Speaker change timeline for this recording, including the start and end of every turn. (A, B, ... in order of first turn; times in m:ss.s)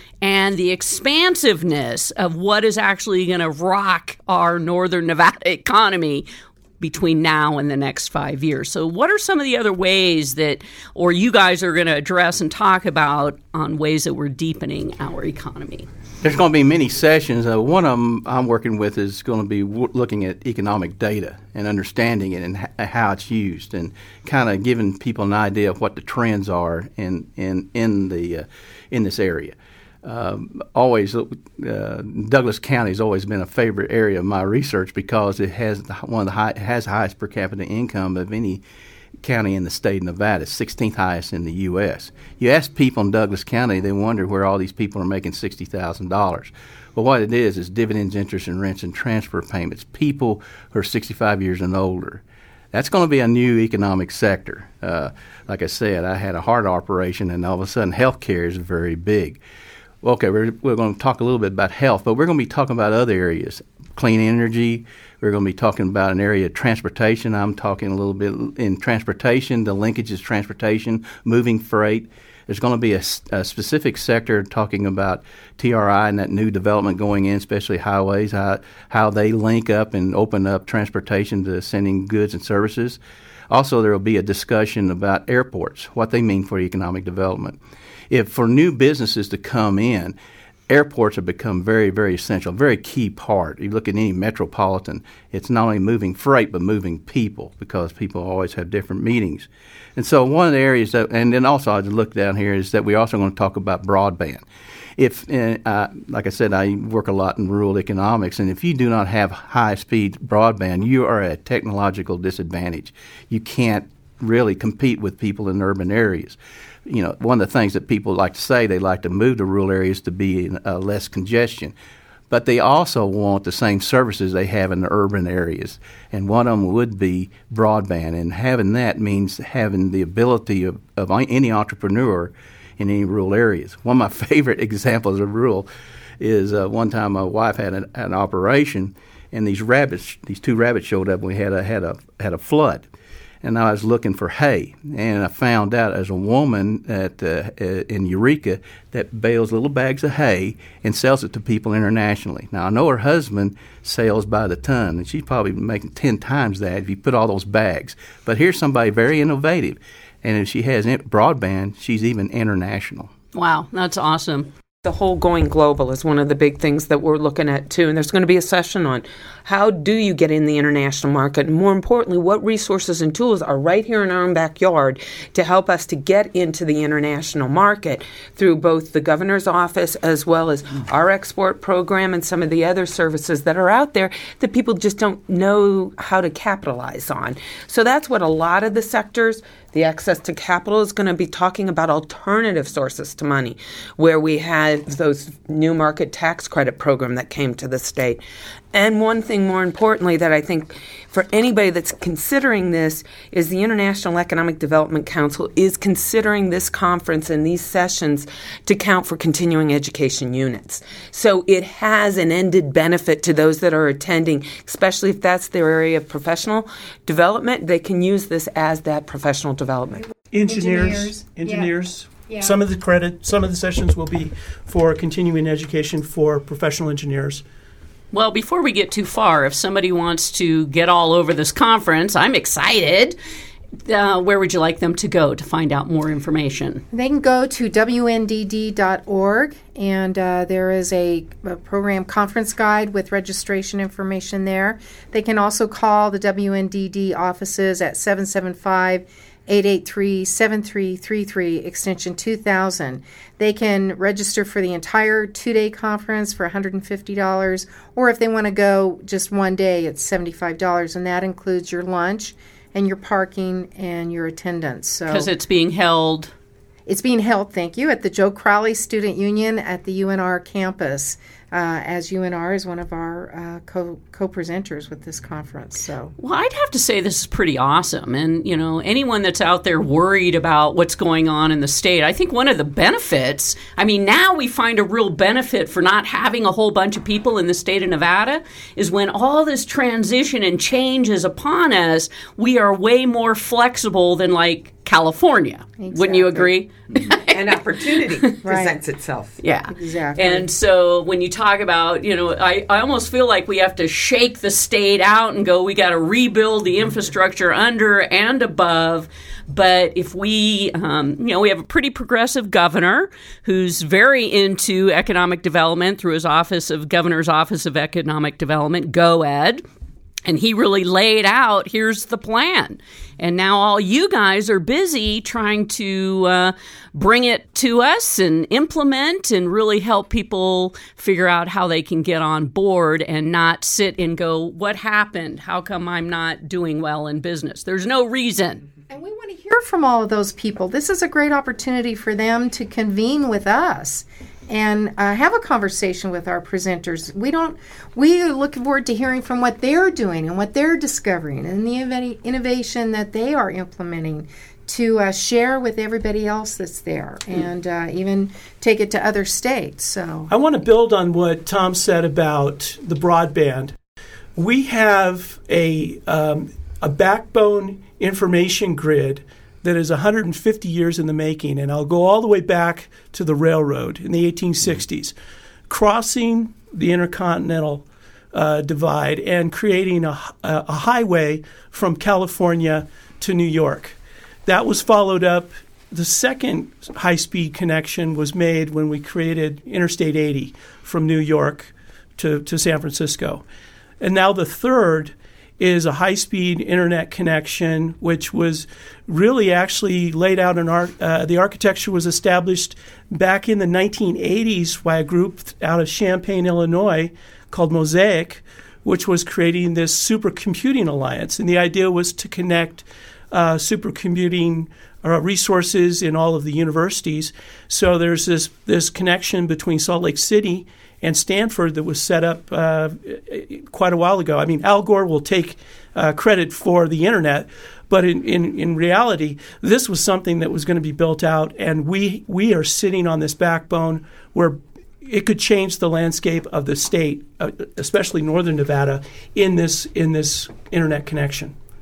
0:00.2-0:06.2 A
0:06.8-0:15.9 A
0:16.2-0:38.6 B
0:39.2-0:59.4 B
1:00.0-1:23.0 B
1:23.5-1:27.6 B
1:28.1-1:30.2 B
1:30.7-1:44.4 B
1:45.0-2:01.7 B
2:02.3-2:15.7 B
2:16.2-2:22.8 B
2:23.4-2:43.1 B
2:43.3-2:44.5 A
2:44.8-3:18.2 C
3:18.7-3:40.0 C
3:40.3-3:47.4 D
3:40.4-3:41.7 E
3:42.3-3:42.6 E
3:48.1-3:53.2 A
3:53.8-3:56.8 A
3:56.9-4:25.3 E
4:25.1-4:26.3 A
4:26.8-4:36.1 E
4:36.2-4:57.4 A
4:55.8-4:56.5 E
4:57.3-4:59.4 C
4:58.4-4:58.8 E
4:59.4-5:19.6 A
4:59.7-5:00.5 E
5:20.2-5:38.6 A
5:38.9-6:00.3 E
6:00.3-6:03.7 D
6:04.4-6:15.1 D
6:15.7-6:33.4 D
6:34.0-7:21.5 D